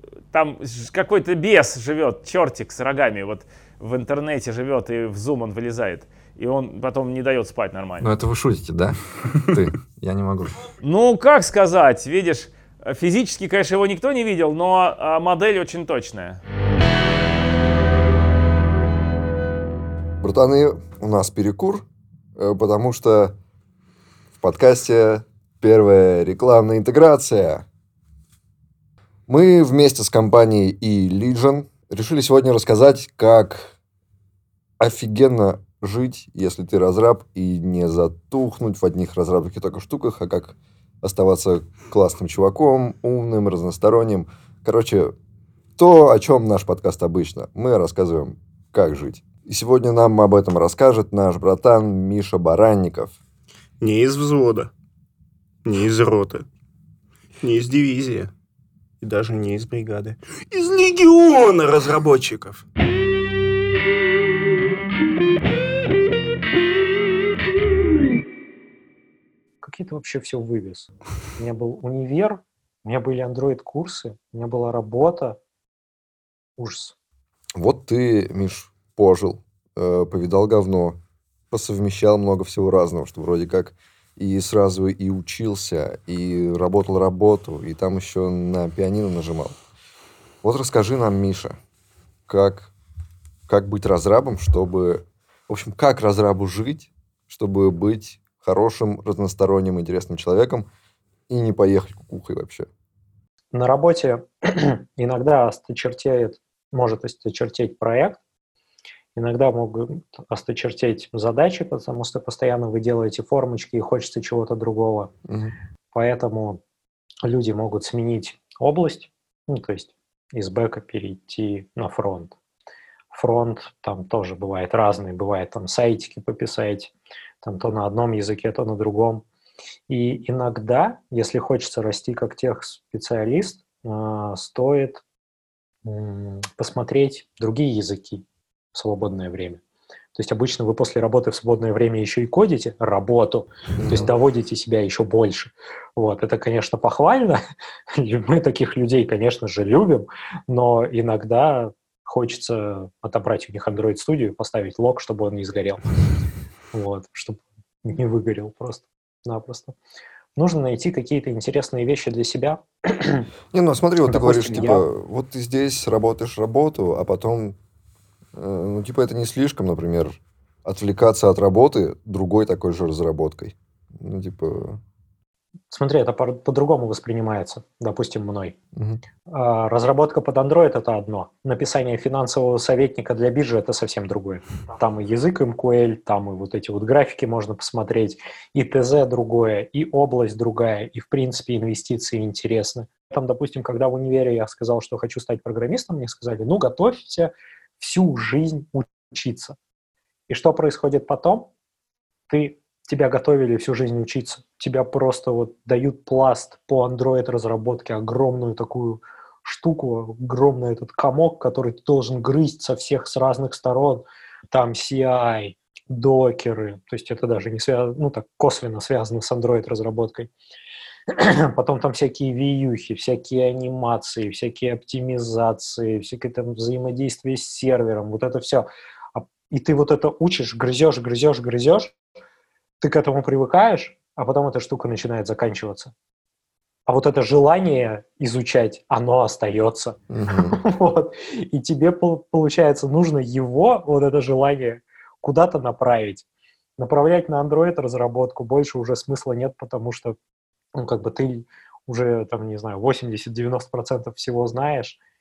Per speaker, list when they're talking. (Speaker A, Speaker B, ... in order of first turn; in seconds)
Speaker A: 0.3-8.1, 10.8-16.4
Speaker B: 8.0-10.6, 20.2-23.4, 24.4-27.6, 29.3-33.7, 34.8-45.1, 45.8-53.1, 77.6-81.0, 81.5-89.5, 90.4-91.6, 92.3-92.7, 93.5-100.7, 101.3-102.7, 115.3-115.5, 143.8-144.1, 163.5-167.6, 168.3-174.8, 178.7-179.0, 240.1-240.6
Speaker C: 53.8-54.7, 55.6-56.4, 57.4-58.3, 59.0-62.6
Speaker D: 69.6-75.4, 76.6-76.9, 103.5-108.2, 109.2-115.1, 115.9-116.6, 117.2-122.3, 123.1-129.2, 129.9-135.0, 135.8-139.6, 140.1-147.4, 147.9-155.8, 156.7-159.8, 160.3-163.3, 164.1-164.8, 175.7-178.6, 179.3-199.6, 200.3-201.5, 202.3-220.3, 221.1-231.9, 232.8-235.9, 236.8-246.2, 246.8-250.2, 250.8-255.0